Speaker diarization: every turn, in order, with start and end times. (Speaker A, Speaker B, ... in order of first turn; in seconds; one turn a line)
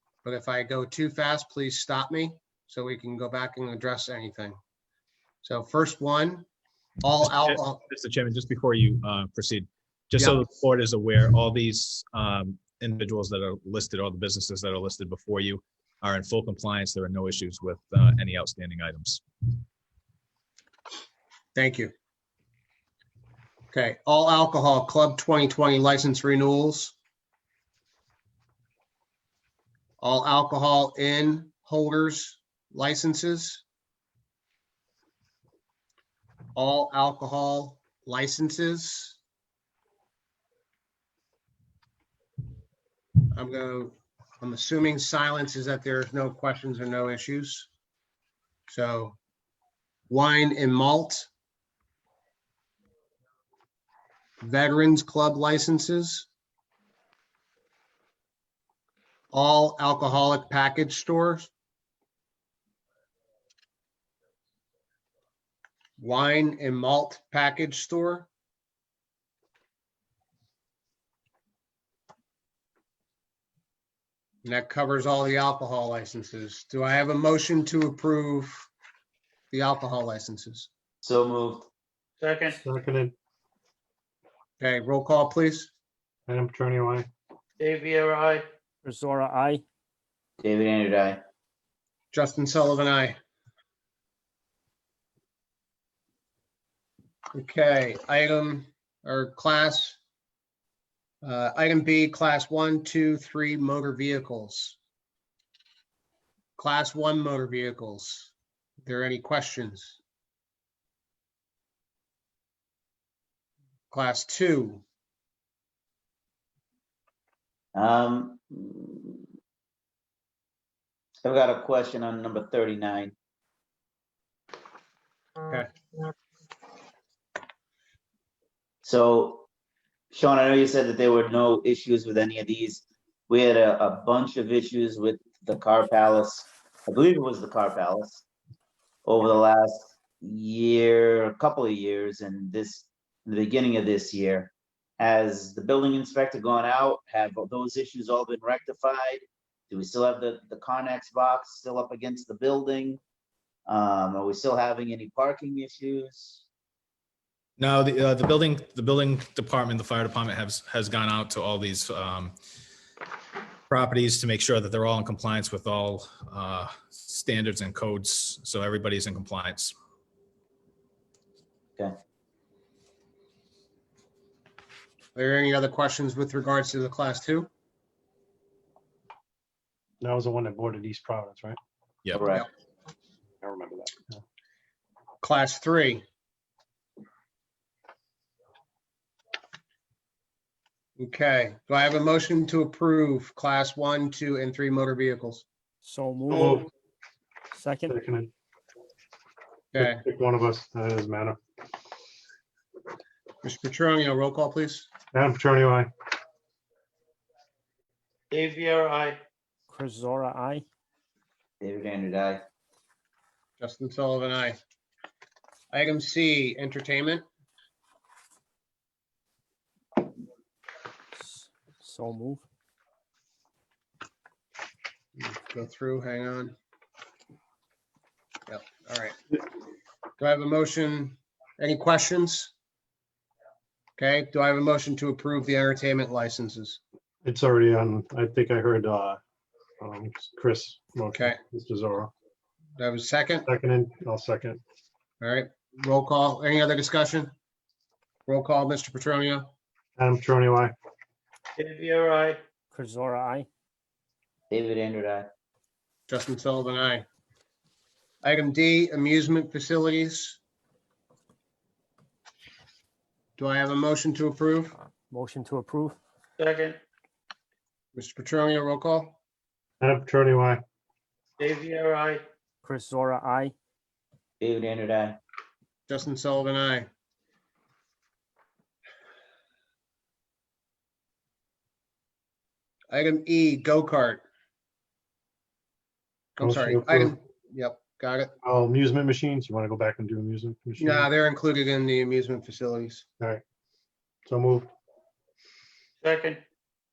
Speaker A: 0.2-4.6
Speaker A: 5.4-6.5
Speaker A: 7.0-7.8
Speaker B: 7.2-19.2
Speaker A: 10.2-10.4
Speaker A: 21.5-21.9
Speaker A: 23.7-26.9
Speaker A: 30.0-33.6
Speaker A: 36.5-39.2
Speaker A: 43.3-47.7
Speaker A: 48.7-49.2
Speaker A: 50.1-51.3
Speaker A: 54.4-56.3
Speaker A: 59.3-61.5
Speaker A: 66.0-68.3
Speaker A: 74.4-78.7
Speaker A: 79.5-80.7
Speaker C: 81.0-81.7
Speaker D: 82.2-82.5
Speaker E: 82.6-83.1
Speaker A: 84.6-85.7
Speaker E: 86.3-87.1
Speaker D: 87.6-88.4
Speaker F: 88.8-89.6
Speaker C: 90.4-91.2
Speaker A: 92.1-93.2
Speaker A: 97.3-100.0
Speaker A: 101.2-104.8
Speaker A: 106.6-108.3
Speaker A: 108.8-110.0
Speaker A: 113.9-114.8
Speaker C: 117.7-119.2
Speaker C: 121.2-123.1
Speaker C: 128.8-129.4
Speaker C: 130.1-138.2
Speaker C: 139.1-153.0
Speaker C: 153.7-156.4
Speaker B: 157.6-162.3
Speaker B: 163.7-169.7
Speaker A: 175.1-177.5
Speaker E: 180.0-181.6
Speaker C: 182.1-182.4
Speaker E: 183.4-184.2
Speaker A: 185.2-186.0
Speaker A: 191.0-195.4
Speaker F: 195.8-196.7
Speaker E: 196.3-196.7
Speaker F: 197.5-197.9
Speaker E: 197.9-198.3
Speaker A: 199.7-200.0
Speaker E: 199.8-201.4
Speaker A: 203.4-204.9
Speaker E: 205.1-205.9
Speaker D: 208.3-209.2
Speaker F: 209.7-210.6
Speaker C: 211.6-212.4
Speaker A: 213.6-214.6
Speaker A: 215.7-217.2
Speaker F: 221.2-222.4
Speaker A: 225.2-226.5
Speaker A: 228.5-229.2
Speaker A: 230.2-232.5
Speaker A: 234.0-236.8
Speaker E: 237.2-239.2
Speaker E: 239.8-242.1
Speaker A: 242.8-243.5
Speaker E: 243.5-244.6
Speaker A: 245.2-247.3
Speaker A: 248.3-249.5
Speaker E: 250.0-250.7
Speaker D: 251.6-252.4
Speaker F: 252.7-253.5
Speaker C: 254.5-255.3
Speaker A: 256.1-257.1
Speaker A: 258.2-260.4
Speaker A: 263.4-264.7
Speaker F: 265.1-266.0
Speaker D: 266.4-266.8
Speaker A: 267.9-269.2
Speaker E: 269.8-270.6
Speaker D: 271.4-272.2
Speaker F: 272.6-273.5
Speaker C: 274.4-275.2
Speaker A: 275.9-276.9
Speaker A: 282.9-284.2
Speaker A: 286.4-288.3
Speaker E: 286.4-287.1
Speaker E: 288.4-291.1
Speaker A: 290.8-293.0
Speaker E: 294.3-294.7
Speaker D: 296.0-296.4